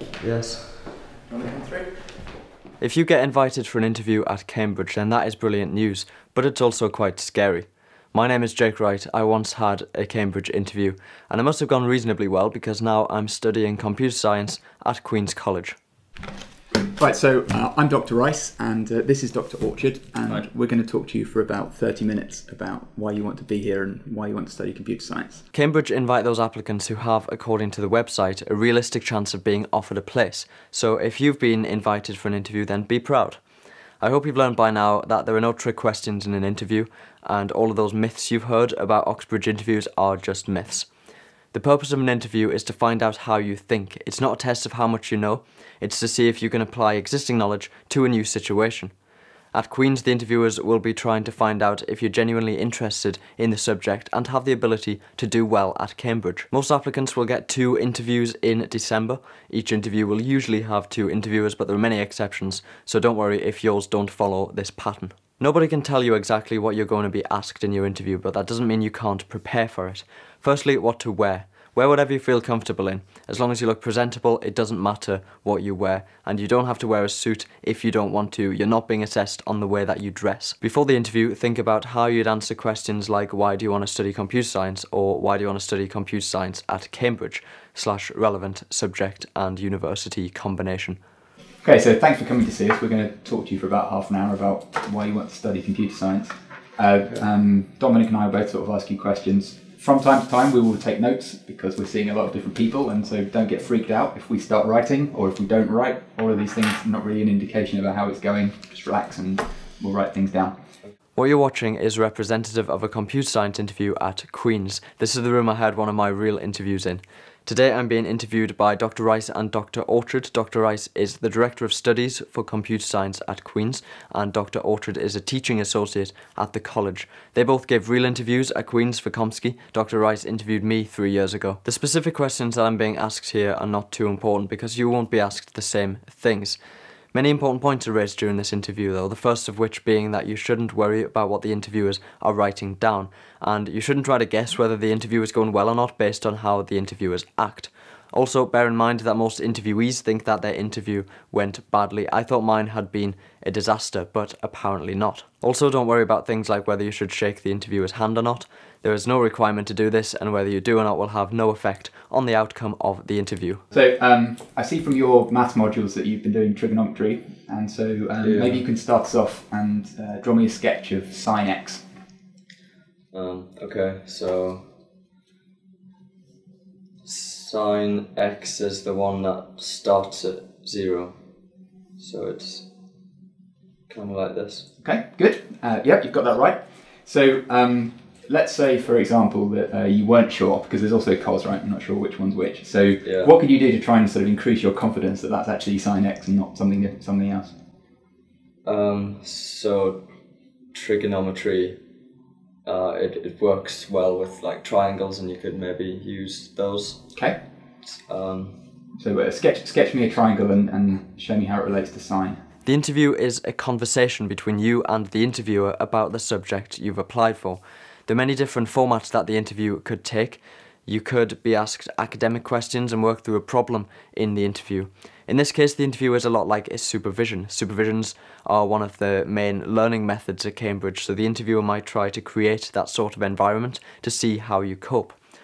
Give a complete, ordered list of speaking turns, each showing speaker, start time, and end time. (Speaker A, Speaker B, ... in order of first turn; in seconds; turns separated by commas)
Speaker A: 0.2-0.9, Speaker B: 1.3-2.0, Speaker A: 2.8-15.8, Speaker B: 17.0-25.4, Speaker A: 25.5-33.4, Speaker A: 34.0-40.9, Speaker A: 41.5-48.9, Speaker A: 49.5-91.0, Speaker B: 91.6-110.5, Speaker A: 111.2-136.6, Speaker A: 137.1-163.6, Speaker B: 163.7-171.8, Speaker A: 168.2-168.7, Speaker A: 173.1-174.7, Speaker A: 177.0-181.1, Speaker A: 182.0-182.7, Speaker A: 183.9-184.7, Speaker B: 184.8-197.6, Speaker A: 193.0-193.3, Speaker A: 198.7-200.1, Speaker A: 200.7-201.8, Speaker A: 202.7-207.0, Speaker A: 208.1-208.6, Speaker B: 209.0-212.4, Speaker A: 212.7-235.2